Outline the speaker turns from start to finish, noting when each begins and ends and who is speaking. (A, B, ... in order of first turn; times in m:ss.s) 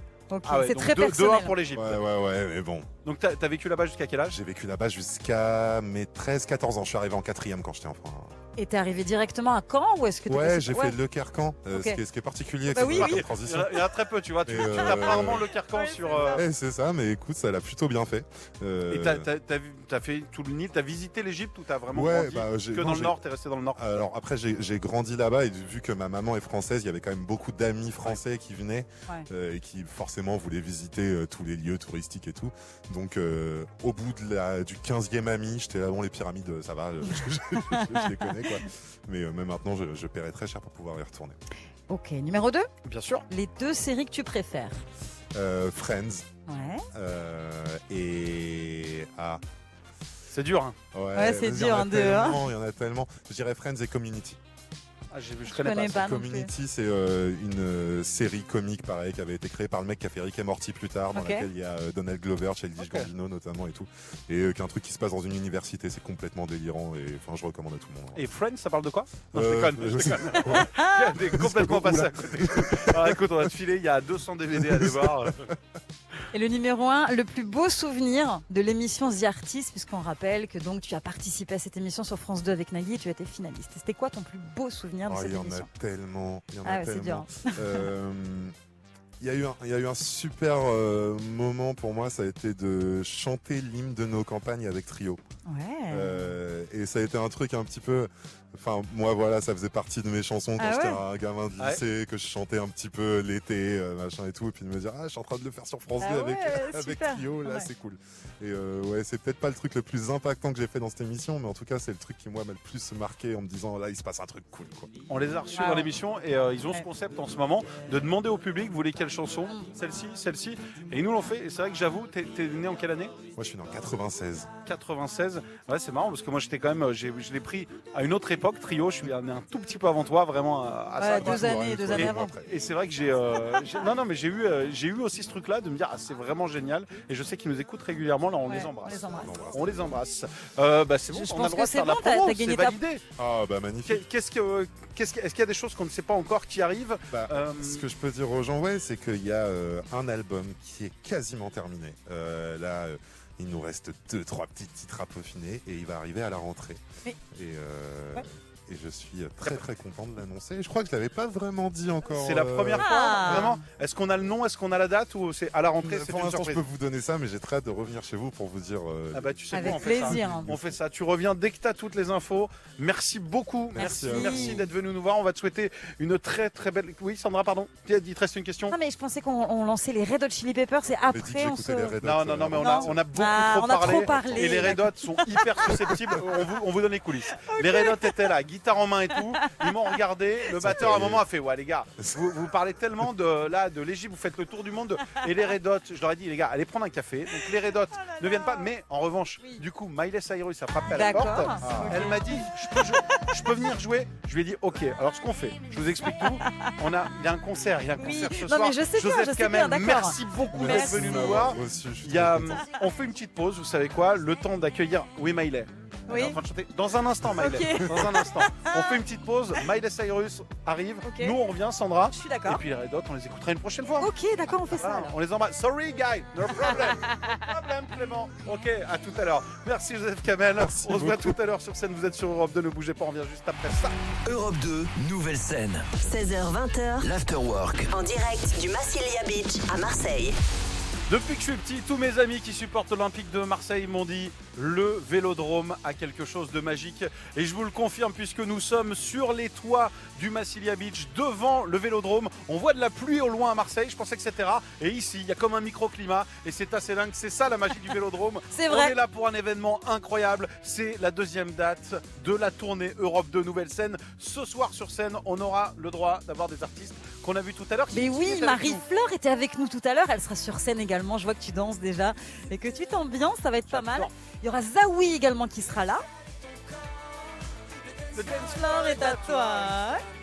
0:00.3-0:01.5 A
0:00.5-0:02.0 B
0:01.7-0:02.9 C
0:03.0-0:04.4 B
0:04.3-0:08.3 C
0:08.6-0:11.0 A
0:10.3-0:13.9 C
0:11.7-0:12.0 A
0:12.7-0:13.2 A
0:12.8-0:16.4 B
0:14.5-0:15.6 C
0:14.6-0:16.4 A
0:16.2-0:19.3 C
0:18.9-0:24.0 B
0:21.9-0:23.2 C
0:23.8-0:41.4 C
0:37.6-0:38.6 A
0:41.9-0:42.7 A
0:42.8-0:43.2 B
0:43.3-0:44.8 A
0:45.3-0:46.3 C
0:46.5-0:46.8 A
0:46.9-0:49.4 C
0:50.3-0:50.8 B
0:50.9-0:54.4 C
0:51.2-0:52.4 A
0:55.1-0:56.0 B
0:55.5-0:56.5 A
0:55.9-1:08.3 C
1:01.2-1:01.5 A
1:02.8-1:03.1 B
1:08.1-1:15.4 B
1:09.2-1:13.5 C
1:10.5-1:11.1 A
1:14.6-1:15.3 C
1:16.3-1:25.7 A
1:25.1-1:28.5 C
1:26.6-1:27.8 A
1:29.2-1:35.2 C
1:35.5-1:36.3 A
1:35.9-1:54.9 C
1:40.6-1:41.0 A
1:46.0-1:47.7 A
1:55.1-2:03.2 B
1:55.5-1:55.9 A
2:03.3-2:04.5 C
2:04.6-2:23.0 B
2:11.0-2:12.3 A
2:11.0-2:12.5 C
2:18.5-2:19.3 A
2:19.1-2:20.0 C
2:21.1-2:22.8 A
2:23.2-2:24.0 C
2:23.8-2:27.9 B
2:27.1-2:43.5 C
2:42.1-2:46.6 B
2:42.8-2:43.6 A
2:45.8-2:50.8 C
2:49.1-2:58.8 B
2:49.5-2:50.5 A
2:53.7-2:54.7 C
2:53.8-2:54.6 A
2:58.7-3:02.0 A
3:01.1-3:03.1 C
3:02.0-3:44.1 B
3:02.6-3:06.2 A
3:03.8-3:04.8 C
3:07.4-3:08.3 A
3:09.2-3:09.7 A
3:10.5-3:11.2 C
3:12.0-3:12.4 C
3:17.3-3:18.7 A
3:20.9-3:23.2 A
3:21.6-3:22.1 C
3:26.0-3:26.8 A
3:28.0-3:31.4 A
3:30.5-3:32.7 C
3:36.1-3:36.4 A
3:37.3-3:39.0 A
3:41.0-3:41.4 A
3:42.1-3:42.6 A
3:44.0-3:45.1 A
3:44.8-3:54.0 B
3:46.5-3:47.4 A
3:50.6-3:51.4 C
3:54.2-3:56.1 D
3:56.0-3:57.1 E
3:57.0-3:57.9 D
3:57.9-4:00.4 E
4:01.1-4:28.8 B
4:18.5-4:19.0 A
4:27.9-4:36.0 A
4:33.7-4:34.1 B
4:38.1-4:39.8 B
4:38.2-4:40.0 A